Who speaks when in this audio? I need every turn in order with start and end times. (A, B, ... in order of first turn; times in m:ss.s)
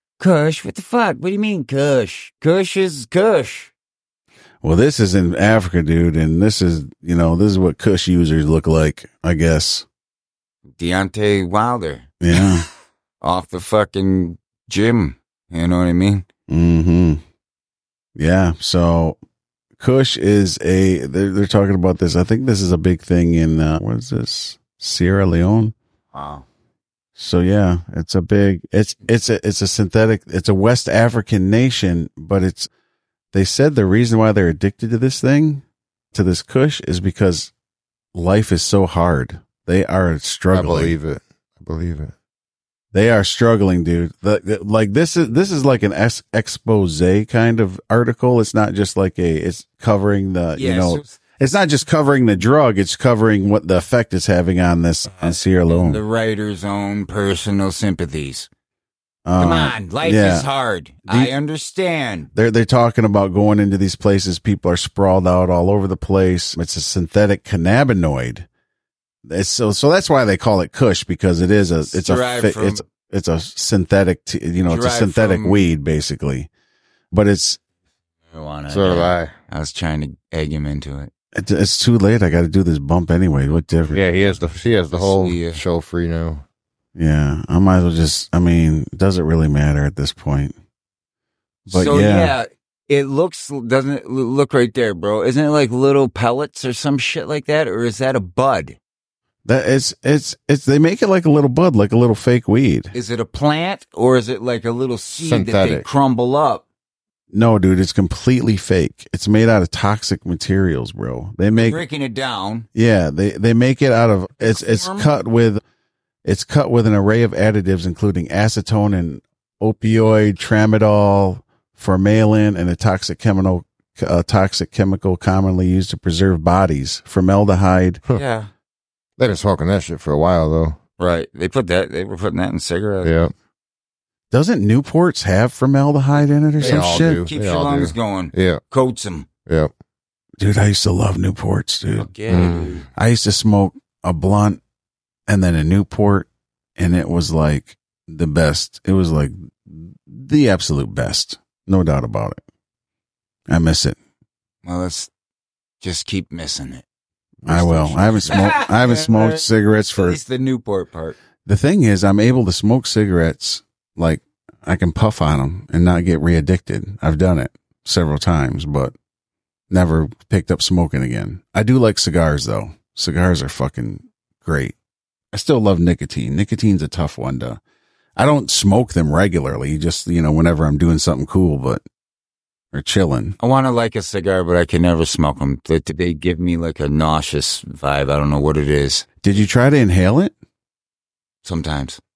0:00.2-0:03.7 A
0:04.6-0:09.8 B
0:10.8-0:12.1 A
0:12.2-0:12.7 B
0:13.2-0:16.2 A
0:16.5-0:17.2 B
0:18.2-0:19.2 B
0:19.8-0:25.7 B
0:26.1-0:26.4 A
0:27.2-0:32.7 B
0:33.3-0:37.5 B
0:38.1-0:40.9 B
0:40.5-0:42.1 C
0:42.9-0:56.0 B
0:50.6-0:51.2 A
0:55.2-0:58.5 A
0:59.2-1:00.5 B
0:59.4-1:02.3 A
1:01.1-1:01.3 B
1:02.3-1:08.5 B
1:09.2-1:16.5 B
1:11.8-1:12.8 A
1:14.6-1:15.6 A
1:17.1-1:17.6 B
1:18.3-1:21.1 A
1:18.7-1:19.3 C
1:21.3-1:24.0 B
1:23.9-1:26.4 C
1:24.9-1:25.6 A
1:27.0-1:30.5 B
1:31.7-1:32.3 B
1:31.7-1:38.8 A
1:39.4-1:42.9 B
1:42.9-1:46.6 A
1:45.1-1:45.9 C
1:47.3-1:51.8 B
1:51.5-1:52.6 A
1:52.7-1:55.6 B
1:54.4-1:55.1 A
1:56.2-2:08.0 B
2:08.1-2:08.5 A
2:09.2-2:10.8 C
2:11.0-2:13.1 A
2:13.0-2:13.3 C
2:14.3-2:17.2 B
2:16.6-2:19.3 A
2:16.6-2:18.6 C
2:20.4-2:22.1 B
2:22.0-2:22.9 A
2:22.3-2:22.8 C
2:23.0-2:24.6 B
2:25.3-2:32.4 B
2:33.5-2:34.0 B
2:34.6-2:35.1 A
2:35.8-2:36.8 A
2:37.4-2:40.2 B
2:37.4-2:41.2 A
2:41.4-2:48.9 B
2:49.7-2:54.7 B
2:55.3-2:57.6 B
2:58.2-3:01.8 B
3:02.7-3:03.4 B
3:03.4-3:09.2 A
3:09.2-3:10.3 B
3:11.4-3:12.0 A